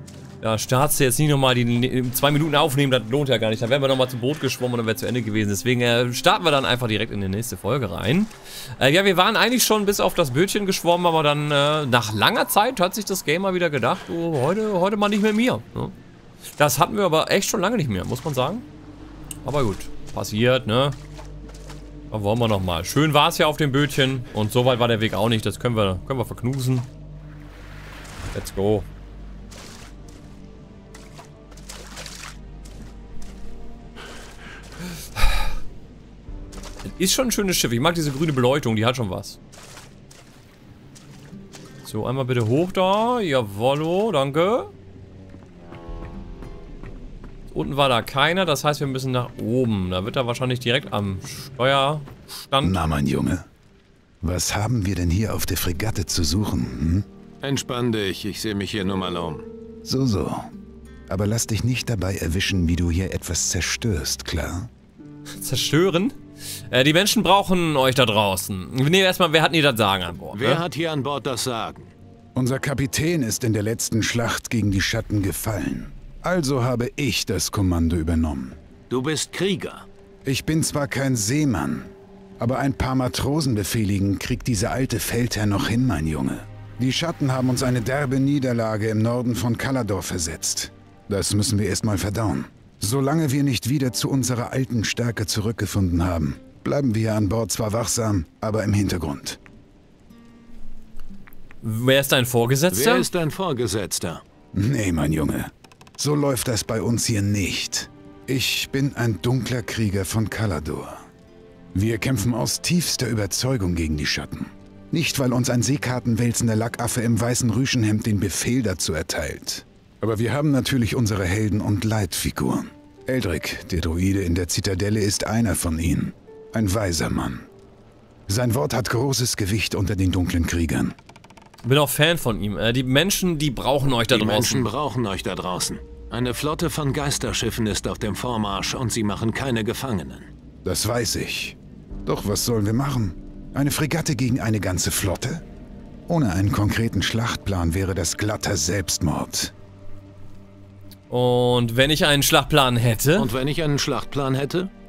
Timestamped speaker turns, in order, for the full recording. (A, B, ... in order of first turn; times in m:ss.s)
0:00.4-0:15.9 A
0:16.6-0:18.6 A
0:19.4-0:21.0 A
0:22.1-0:26.9 A
0:28.3-0:28.9 A
0:36.8-0:39.4 A
0:41.8-0:44.7 A
0:47.5-0:52.8 A
0:52.6-0:53.5 B
0:54.2-0:57.0 B
0:57.4-0:59.5 C
0:59.8-1:00.5 B
1:01.1-1:04.7 B
1:05.4-1:06.2 A
1:06.7-1:10.6 A
1:10.3-1:11.9 C
1:12.4-1:18.6 B
1:18.9-1:19.9 C
1:20.2-1:39.4 B
1:41.6-1:43.1 A
1:42.7-1:44.2 C
1:44.5-1:51.0 B
1:51.8-2:07.5 B
2:08.3-2:11.0 B
2:11.6-2:14.7 A
2:14.1-2:20.3 C
2:20.6-2:25.4 B
2:26.1-2:29.5 B
2:31.1-2:33.3 A
2:33.2-2:34.7 C